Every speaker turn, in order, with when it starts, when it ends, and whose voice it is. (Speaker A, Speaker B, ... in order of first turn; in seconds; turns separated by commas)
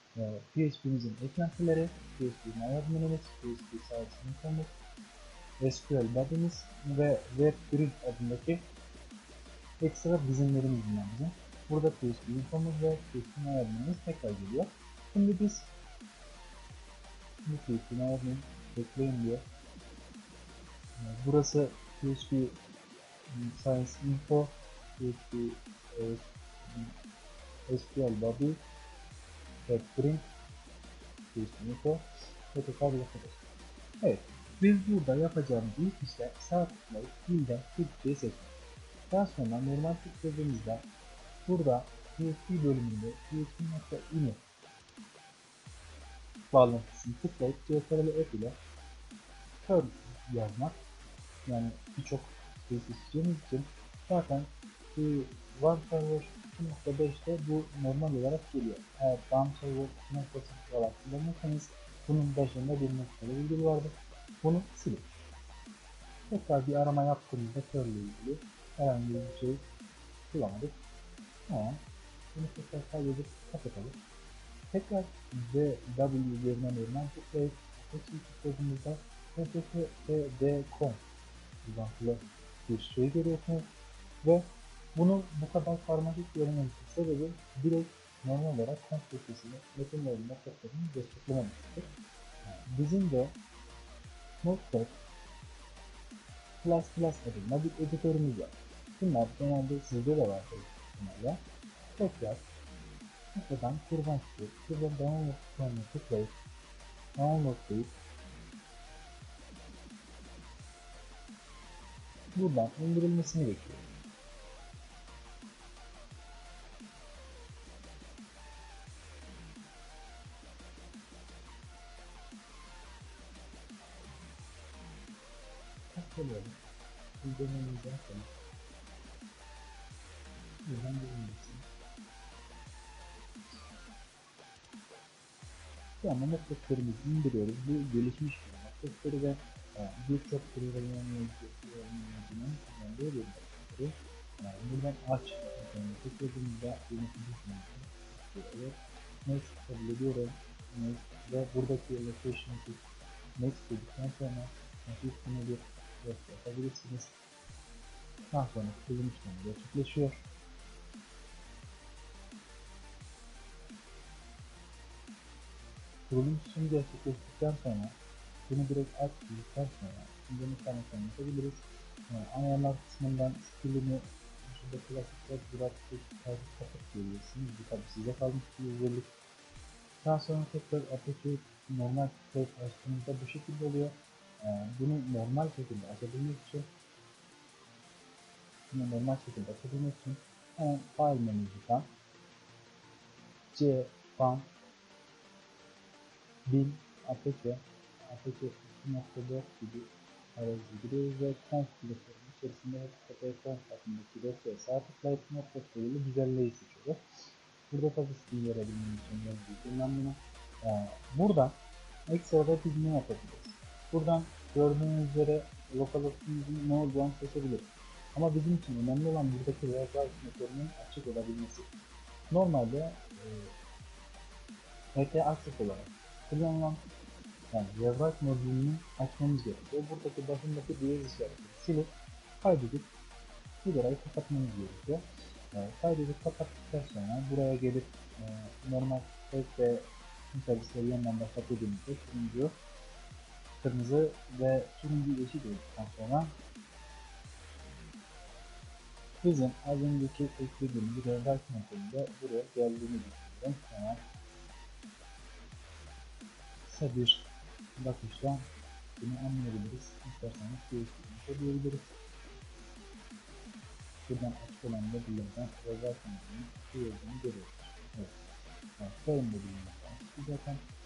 Speaker A: 0.1-4.7, Speaker A: 5.6-8.6, Speaker A: 9.8-15.7, Speaker A: 17.4-19.4, Speaker A: 21.0-22.6, Speaker A: 23.3-26.9, Speaker A: 27.7-28.6, Speaker A: 29.6-30.3, Speaker A: 31.3-33.4, Speaker A: 34.0-38.5, Speaker A: 39.1-40.9, Speaker A: 41.5-44.4, Speaker A: 46.5-48.6, Speaker A: 49.6-50.8, Speaker A: 51.5-65.1, Speaker A: 66.3-69.6, Speaker A: 70.3-70.8, Speaker A: 71.5-71.8, Speaker A: 72.3-74.0, Speaker A: 74.7-81.0, Speaker A: 81.6-83.7, Speaker A: 84.2-91.9, Speaker A: 92.4-93.3, Speaker A: 94.4-95.0, Speaker A: 96.6-101.4, Speaker A: 102.0-102.4, Speaker A: 103.3-106.4, Speaker A: 107.2-107.9, Speaker A: 112.3-113.8, Speaker A: 125.9-126.6, Speaker A: 127.2-128.3, Speaker A: 130.6-131.7, Speaker A: 136.0-152.8, Speaker A: 153.4-157.2, Speaker A: 158.3-160.2, Speaker A: 166.1-167.9, Speaker A: 168.5-179.1, Speaker A: 180.0-186.7, Speaker A: 188.7-191.9, Speaker A: 193.5-194.5, Speaker A: 196.4-211.6, Speaker A: 212.1-221.7, Speaker A: 222.3-223.5, Speaker A: 224.9-226.8, Speaker A: 227.5-232.9, Speaker A: 233.6-242.5, Speaker A: 243.6-246.3, Speaker A: 249.2-254.0, Speaker A: 256.6-261.9, Speaker A: 264.1-268.2, Speaker A: 268.8-270.6